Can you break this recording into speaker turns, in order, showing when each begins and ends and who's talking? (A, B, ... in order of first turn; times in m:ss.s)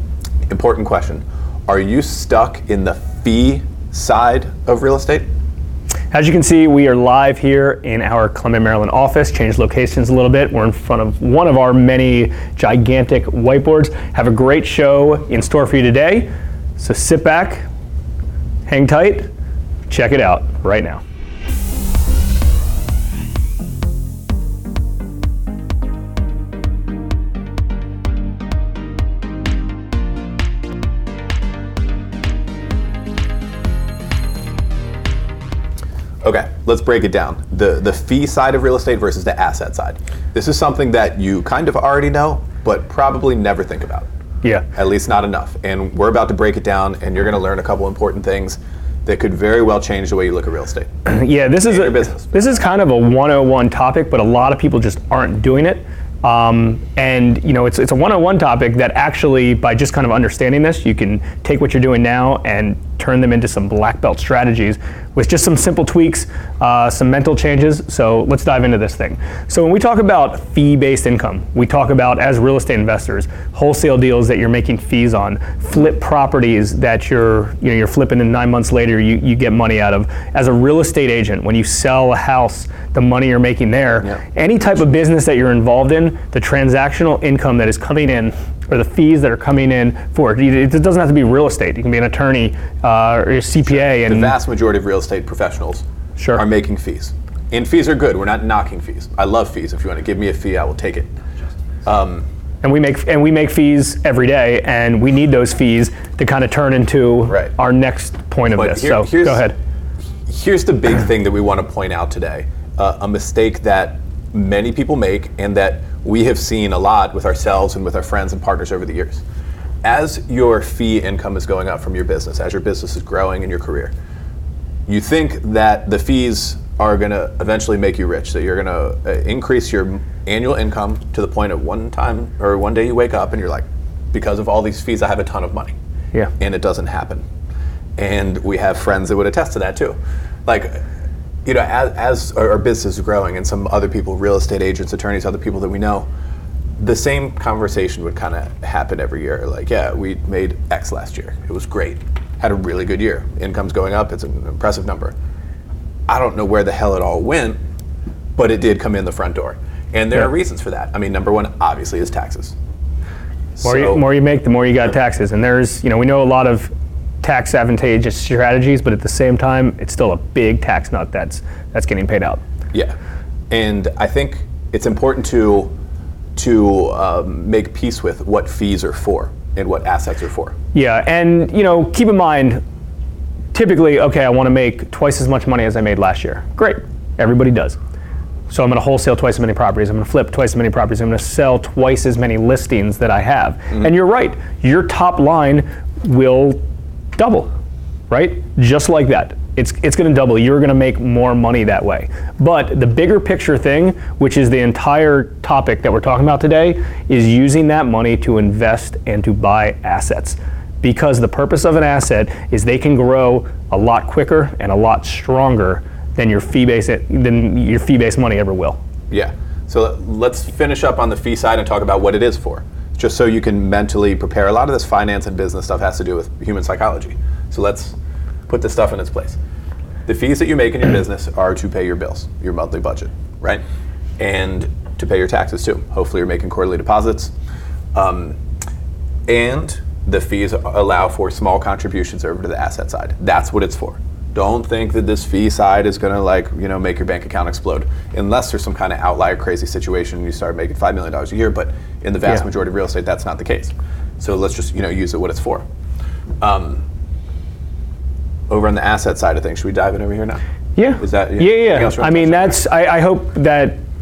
0:00.5-0:05.3 A
0:06.1-0:17.7 B
0:18.7-0:19.3 B
0:19.9-0:21.0 B
0:36.2-0:44.1 A
0:44.7-0:50.9 A
0:51.1-1:34.3 B
0:51.7-0:52.6 A
1:33.7-1:41.1 A
1:36.2-1:36.4 B
1:41.8-1:42.3 A
1:42.6-1:49.6 B
1:48.5-1:49.5 A
1:50.3-1:59.2 A
1:59.8-2:03.9 A
2:04.9-2:15.8 A
2:16.4-2:17.2 A
2:18.0-2:20.0 A
2:20.5-2:20.8 A
2:21.4-2:26.1 A
2:26.8-2:35.2 A
2:36.1-2:37.6 A
2:38.4-2:42.6 A
2:43.6-2:44.0 A
2:43.6-2:46.7 B
2:47.2-2:52.4 B
2:53.5-2:55.7 A
2:56.4-3:00.6 A
3:00.7-3:02.6 B
3:03.5-3:07.8 B
3:08.5-3:16.6 B
3:17.2-3:17.5 B
3:18.1-3:38.8 B
3:39.1-3:48.0 A
3:48.5-3:49.4 A
3:50.1-3:53.6 A
3:54.2-3:57.3 A
3:58.0-3:58.4 A
3:59.3-4:15.6 A
4:16.4-4:16.8 A
4:18.5-4:20.4 A
4:20.8-4:23.8 B
4:21.0-4:22.6 A